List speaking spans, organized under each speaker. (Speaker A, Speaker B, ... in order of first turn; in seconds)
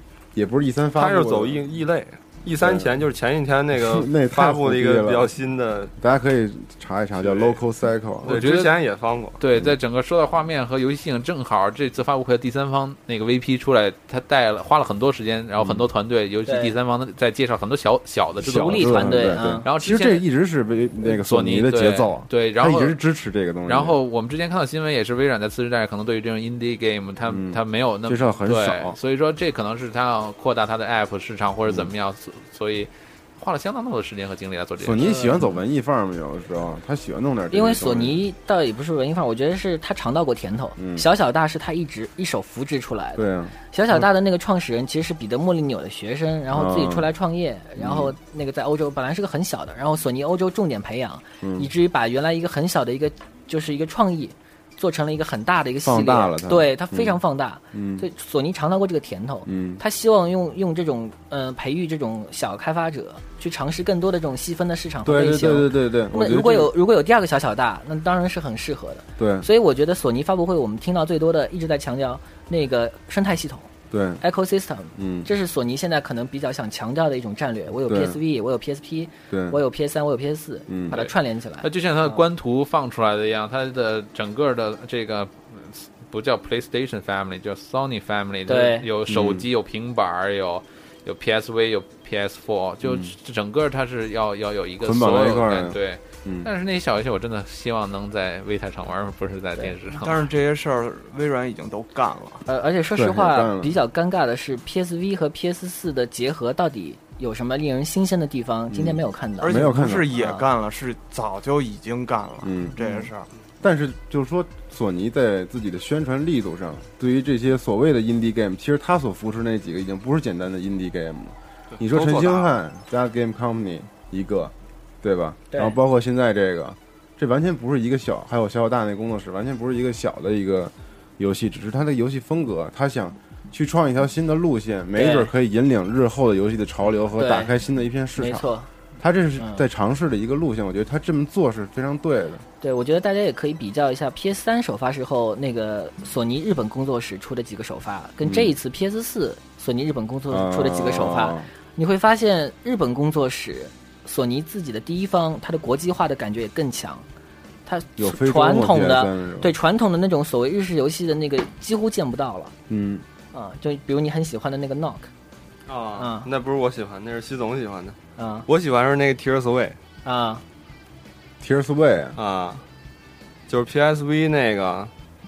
Speaker A: 0.3-1.6, 2.6-2.9, 3.7-5.3, 6.0-8.4, 15.6-15.8, 18.4-24.0, 27.2-29.0, 31.6-31.9, 34.8-38.2, 40.8-41.1, 43.1-44.0, 46.5-47.1, 47.8-48.1, 51.4-51.7, 55.8-57.2, 57.7-58.0, 59.4-59.8, 65.0-66.7, 69.2-69.5, 73.9-74.2, 75.0-75.3, 77.9-78.2, 79.3-79.6, 80.7-81.1, 89.1-89.5, 92.8-93.1, 94.8-96.5, 102.9-103.8, 108.7-110.1, 112.4-112.8, 113.6-142.4, 148.2-148.5, 150.3-151.5, 158.0-159.5, 162.7-163.0, 171.4-172.2
Speaker B: 0.9-5.9, 7.2-7.6, 8.2-9.4, 121.8-122.5, 165.7-169.8, 172.2-172.6, 173.5-174.9
Speaker C: 8.2-8.7, 9.4-20.2, 21.0-23.0, 23.7-35.0, 81.6-100.3
Speaker D: 16.4-16.7, 18.4-19.6, 35.0-35.5, 37.5-73.7, 74.2-82.2, 88.5-88.8, 102.5-110.4, 112.8-113.0, 125.5-125.8, 134.9-135.3, 137.2-137.5, 138.2-138.7, 139.4-139.6, 142.6-157.1, 157.7-162.5, 163.3-165.1, 165.9-166.3, 168.2-168.4, 170.0-170.4
Speaker E: 99.9-102.4, 109.4-113.3